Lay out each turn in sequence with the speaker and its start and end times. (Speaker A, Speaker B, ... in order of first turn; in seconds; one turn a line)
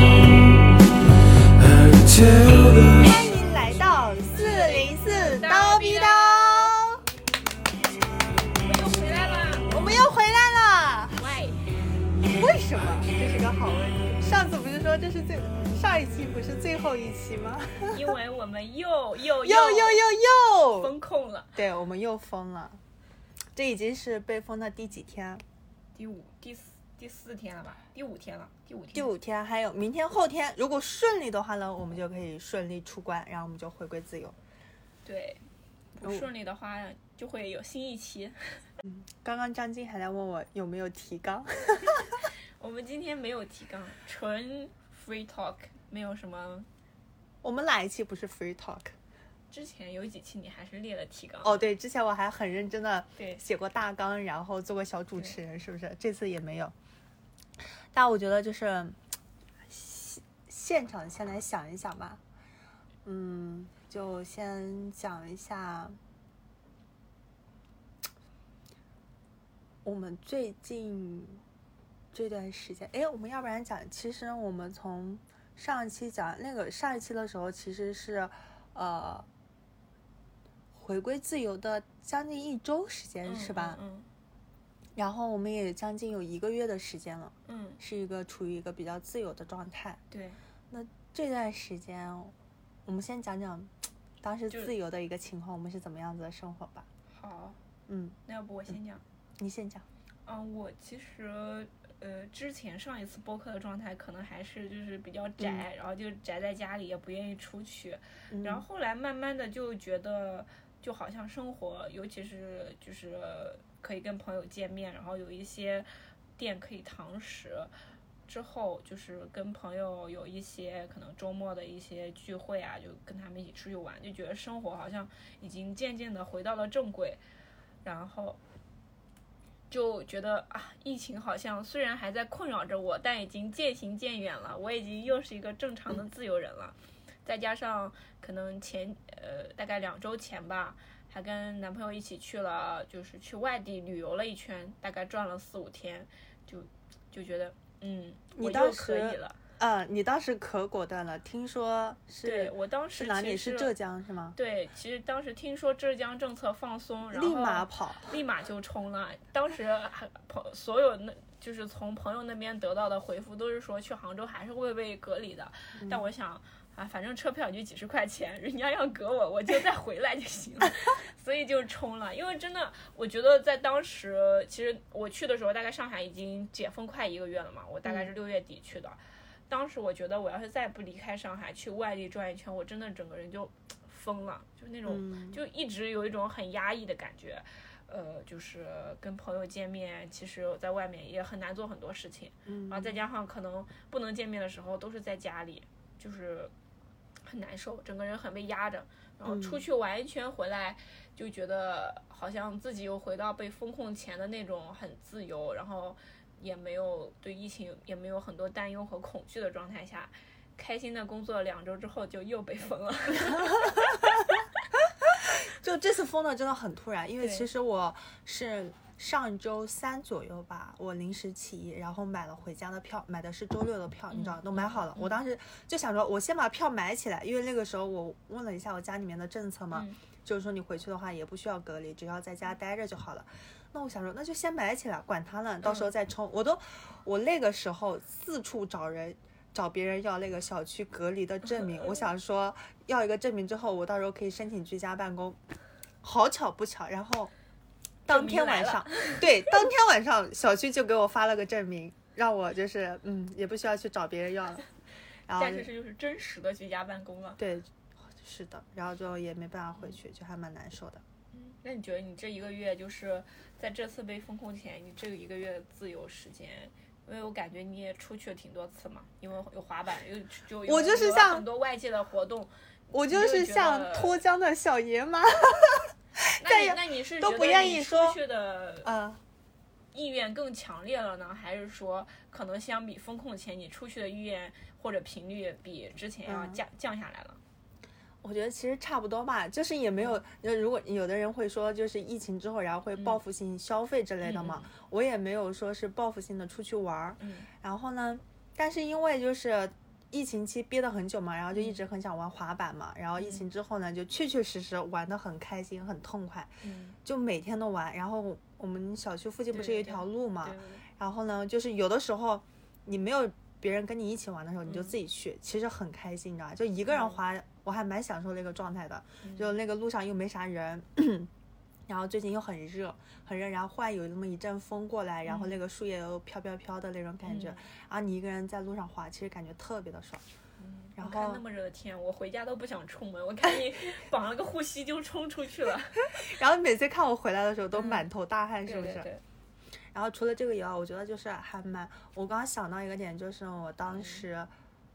Speaker A: 1.5-3.5
Speaker B: 3.0-7.0
Speaker C: 4.3-6.8
Speaker C: 8.6-9.8
Speaker B: 9.7-11.2
Speaker C: 11.2-11.7
Speaker B: 12.2-18.0
Speaker C: 17.9-20.0
Speaker B: 19.4-20.9
Speaker C: 20.8-21.6
Speaker B: 21.5-22.8
Speaker B: 23.5-25.4
Speaker C: 25.9-29.1
Speaker B: 28.9-34.4
Speaker C: 35.0-35.4
Speaker C: 36.0-38.6
Speaker B: 36.0-36.2
Speaker B: 38.8-42.2
Speaker C: 42.6-46.7
Speaker B: 47.4-48.9
Speaker C: 49.5-51.7
Speaker B: 51.4-56.7
Speaker C: 53.2-53.4
Speaker B: 57.9-59.0
Speaker B: 59.7-62.2
Speaker B: 63.0-66.0
Speaker B: 69.8-71.4
Speaker B: 72.1-79.3
Speaker B: 80.7-83.8
Speaker C: 83.2-84.1
Speaker B: 85.0-90.0
Speaker C: 87.5-87.8
Speaker C: 90.1-90.4
Speaker B: 90.7-92.3
Speaker B: 92.8-96.9
Speaker C: 97.1-97.6
Speaker B: 97.9-98.2
Speaker C: 98.2-99.0
Speaker B: 99.4-99.8
Speaker C: 100.2-117.7
Speaker B: 105.4-105.6
Speaker B: 108.3-108.6
Speaker C: 118.2-127.2
Speaker C: 127.8-128.4
Speaker C: 129.7-149.4
Speaker B: 148.3-154.4
Speaker C: 152.2-153.7
Speaker C: 154.3-196.5
Speaker B: 157.1-158.2
Speaker B: 165.8-166.0
Speaker B: 177.8-178.1
Speaker B: 184.9-185.4
Speaker B: 192.4-192.9
Speaker C: 197.2-214.1
Speaker B: 199.3-199.6
Speaker B: 215.2-245.4
Speaker C: 217.2-217.5
Speaker C: 224.1-225.2
Speaker B: 246.0-247.3
Speaker B: 248.1-254.6
Speaker C: 248.1-249.5
Speaker B: 255.3-255.7
Speaker C: 255.4-257.4
Speaker B: 257.4-261.0
Speaker C: 261.3-272.5
Speaker B: 270.6-271.4
Speaker B: 272.9-278.2
Speaker C: 273.1-274.2
Speaker C: 276.4-278.9
Speaker B: 278.8-279.2
Speaker C: 279.9-287.4
Speaker B: 286.2-286.6
Speaker B: 288.2-306.5
Speaker C: 294.2-294.7
Speaker C: 297.2-297.5
Speaker C: 301.5-301.8
Speaker C: 303.2-303.4
Speaker C: 306.6-307.0
Speaker B: 307.0-321.3
Speaker C: 309.5-310.8
Speaker C: 314.6-314.9
Speaker C: 316.9-317.2
Speaker C: 319.2-319.5
Speaker B: 321.9-330.2
Speaker C: 325.2-325.6
Speaker C: 327.2-327.7
Speaker C: 330.6-336.2
Speaker B: 331.0-331.4
Speaker B: 336.1-339.1
Speaker C: 337.7-338.0
Speaker C: 338.6-339.2
Speaker B: 339.9-344.5
Speaker C: 343.9-344.2